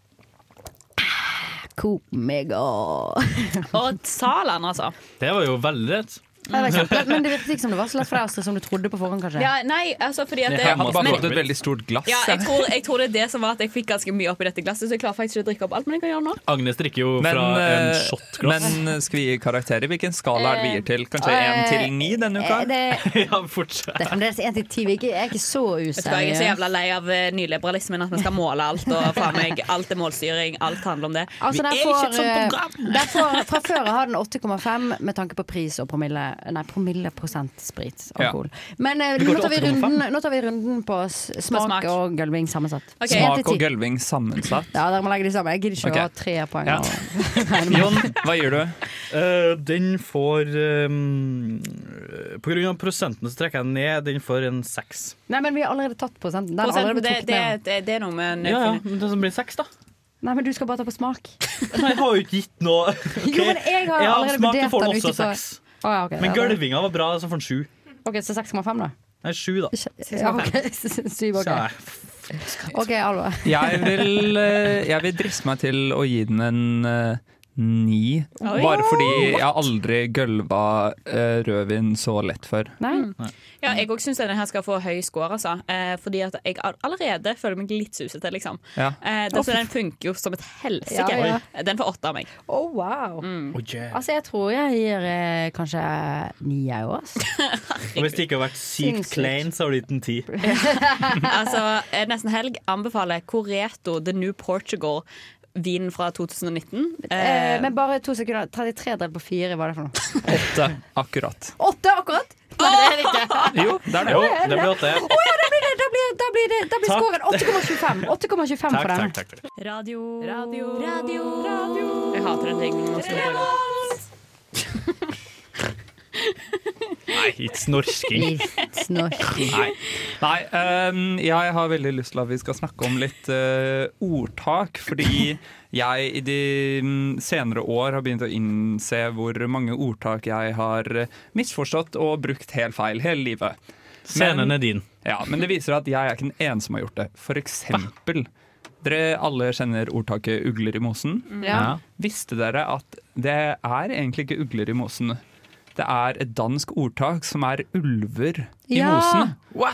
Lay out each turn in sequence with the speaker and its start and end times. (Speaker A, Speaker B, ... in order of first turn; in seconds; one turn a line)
Speaker A: 1.0-3.7
Speaker B: 3.7-5.0
Speaker C: 5.2-6.2
Speaker B: 6.5-6.8
Speaker A: 6.5-9.5
Speaker C: 6.7-7.2
Speaker B: 9.4-11.3
Speaker C: 10.5-11.5
Speaker D: 10.6-12.7
Speaker B: 12.1-16.4
Speaker C: 16.5-18.8
Speaker D: 17.2-22.7
Speaker B: 20.4-20.8
Speaker A: 21.2-23.2
Speaker C: 22.9-24.2
Speaker A: 24.0-26.6
Speaker B: 26.0-31.3
Speaker A: 31.4-43.6
Speaker C: 31.5-32.6
Speaker C: 39.2-40.0
Speaker B: 41.5-42.0
Speaker B: 43.0-43.3
Speaker D: 43.1-44.7
Speaker A: 44.7-48.2
Speaker D: 45.8-46.1
Speaker D: 46.6-48.8
Speaker C: 49.1-55.2
Speaker A: 55.3-57.6
Speaker B: 56.6-58.8
Speaker C: 58.4-59.7
Speaker A: 60.2-61.4
Speaker C: 61.7-65.6
Speaker A: 63.2-66.6
Speaker C: 66.2-67.7
Speaker A: 68.0-68.9
Speaker C: 69.2-69.7
Speaker A: 69.7-71.7
Speaker B: 70.1-70.5
Speaker C: 71.4-72.9
Speaker A: 72.7-74.3
Speaker D: 73.4-82.8
Speaker B: 78.4-79.2
Speaker A: 78.6-79.4
Speaker A: 82.8-83.1
Speaker B: 82.9-92.3
Speaker A: 90.9-91.4
Speaker C: 91.1-91.4
Speaker A: 92.5-93.3
Speaker B: 93.2-93.6
Speaker C: 93.5-94.0
Speaker A: 93.9-97.2
Speaker B: 97.4-98.2
Speaker C: 98.0-100.3
Speaker A: 98.8-99.5
Speaker A: 100.3-101.4
Speaker B: 100.4-107.7
Speaker A: 107.1-110.5
Speaker D: 110.3-111.6
Speaker A: 111.6-119.2
Speaker B: 112.6-113.6
Speaker D: 113.5-114.7
Speaker C: 114.0-115.1
Speaker C: 116.8-118.1
Speaker C: 118.7-119.4
Speaker B: 119.6-121.3
Speaker A: 120.2-122.4
Speaker B: 122.1-123.6
Speaker A: 123.0-123.9
Speaker C: 127.1-128.3
Speaker A: 128.1-129.6
Speaker D: 129.5-143.6
Speaker C: 144.1-144.8
Speaker D: 144.1-148.3
Speaker D: 148.8-155.2
Speaker A: 151.4-151.7
Speaker C: 151.5-151.8
Speaker D: 155.8-159.4
Speaker A: 158.7-159.3